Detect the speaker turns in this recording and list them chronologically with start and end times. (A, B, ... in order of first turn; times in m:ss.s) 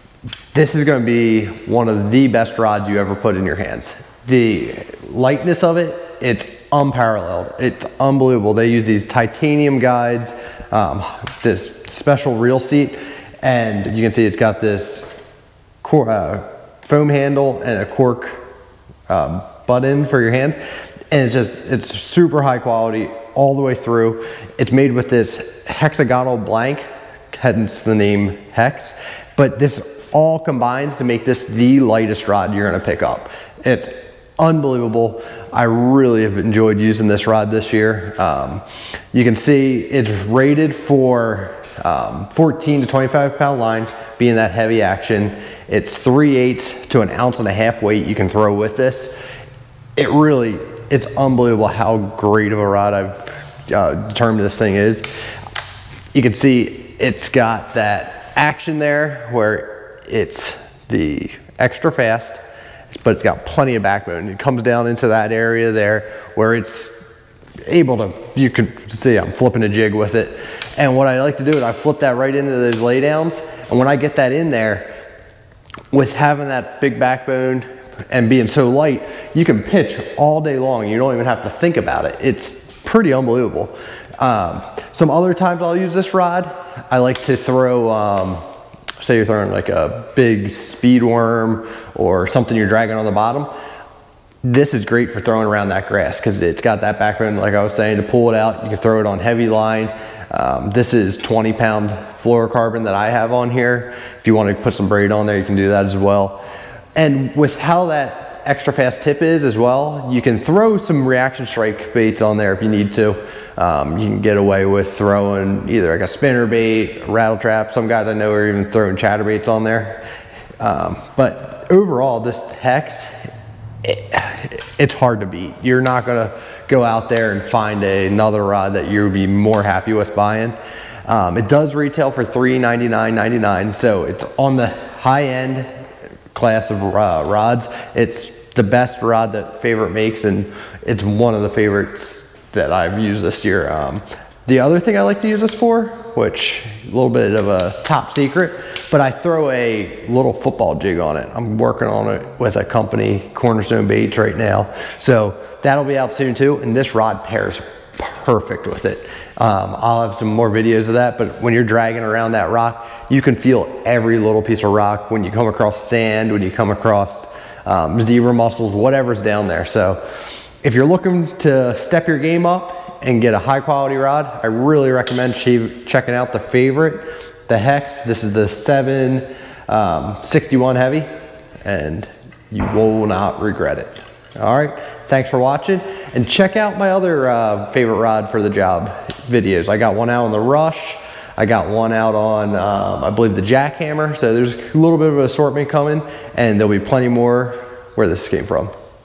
0:00.5-0:15.1 A
0:15.8-0:18.4 A
0:19.1-0:20.6 A
0:21.1-0:49.1 A
0:50.0-0:55.1 A
0:56.1-1:02.4 A
1:03.0-1:07.0 A
1:07.7-1:14.9 A
1:15.9-1:28.4 A
1:29.0-1:33.5 A
1:34.4-1:46.4 A
1:47.0-2:00.0 A
2:00.6-2:03.3 A
2:03.8-2:10.6 A
2:11.1-2:15.7 A
2:16.3-2:50.0 A
2:50.6-3:01.1 A
3:01.6-3:18.7 A